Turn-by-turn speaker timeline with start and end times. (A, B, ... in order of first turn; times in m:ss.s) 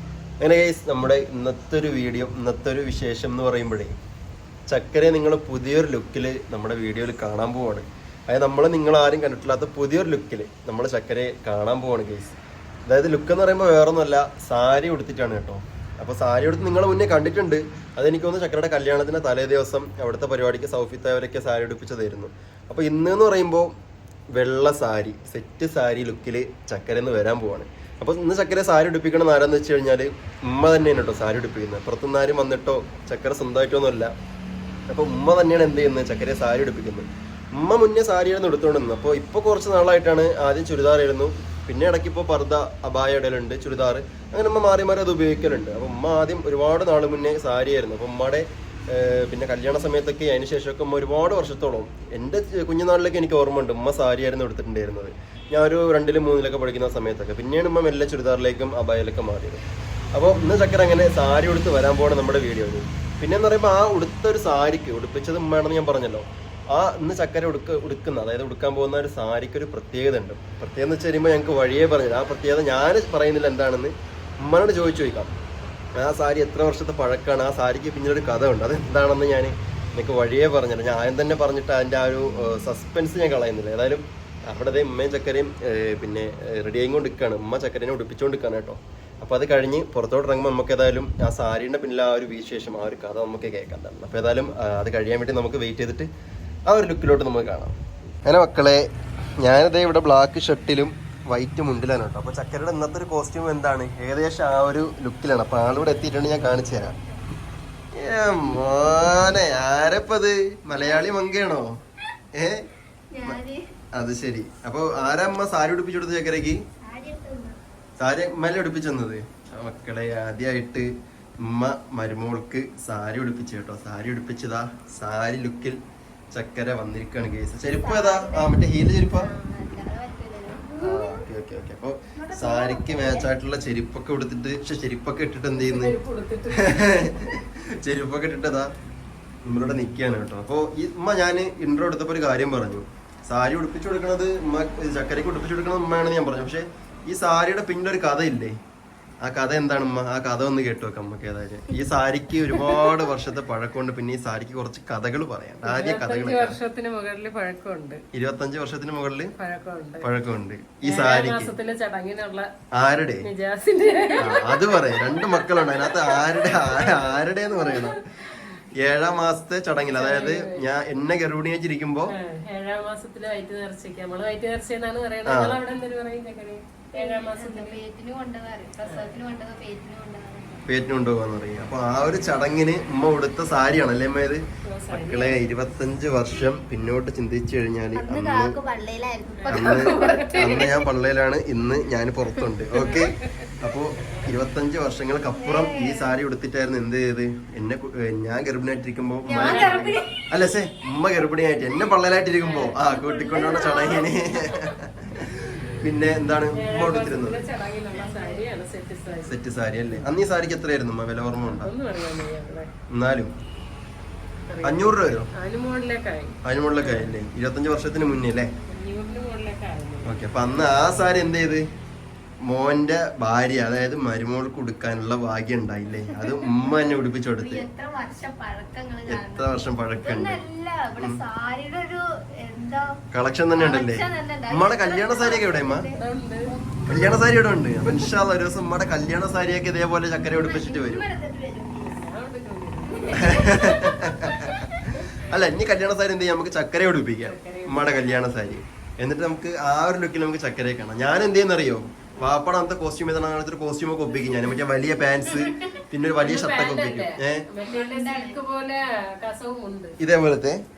0:00.4-0:04.0 A
0:04.7-0:12.4 A
0:12.9-0:23.7 A
0:24.3-0:34.1 A
0:34.9-1:15.3 A
1:16.0-1:36.1 A
1:36.7-1:38.9 A
1:39.4-1:47.0 A
1:48.0-1:51.7 A
1:52.4-1:52.7 A
1:53.1-1:53.6 B
1:54.0-1:56.6 A
1:56.8-1:57.6 B
1:58.0-2:00.9 A
2:01.4-2:05.8 A
2:06.3-2:09.3 A
2:07.7-2:08.6 B
2:09.1-2:11.3 B
2:10.8-2:16.0 A
2:12.2-2:13.3 B
2:15.5-2:17.0 C
2:16.5-2:18.7 A
2:19.4-2:28.6 A
2:29.2-2:36.6 A
2:35.6-2:38.0 C
2:38.1-2:39.3 A
2:39.4-2:40.1 C
2:40.0-2:41.5 A
2:40.8-2:42.5 C
2:42.7-2:43.3 A
2:43.2-2:48.6 C
2:44.2-2:48.0 A
2:48.8-2:52.1 A
2:49.9-2:50.6 C
2:52.1-2:57.8 C
2:55.3-2:55.6 A
2:57.0-3:00.7 B
2:58.8-2:59.2 C
3:00.7-3:08.6 A
3:04.7-3:05.4 C
3:08.0-3:10.7 B
3:09.4-3:10.7 C
3:09.5-3:27.5 A
3:12.8-3:14.3 C
3:15.4-3:16.2 B
3:19.3-3:20.2 B
3:19.4-3:20.0 C
3:22.4-3:24.7 C
3:23.1-3:24.1 B
3:26.6-3:29.4 C
3:27.9-3:28.5 B
3:29.3-3:31.7 A
3:31.4-3:32.7 C
3:32.9-3:33.3 A
3:34.5-3:37.1 C
3:34.6-3:35.3 A
3:36.4-3:38.5 A
3:38.7-3:40.3 C
3:40.0-3:41.7 A
3:42.4-3:47.7 A
3:46.1-3:53.0 B
3:49.1-3:50.4 A
3:53.1-3:55.8 A
3:53.6-3:57.3 B
3:55.9-3:56.5 C
3:56.9-4:01.1 A
4:00.2-4:02.1 B
4:01.8-4:03.8 C
4:02.9-4:04.1 B
4:03.2-4:17.5 A
4:04.9-4:05.4 C
4:07.2-4:08.1 C
4:16.2-4:20.0 C
4:17.6-4:18.4 B
4:20.0-4:20.6 A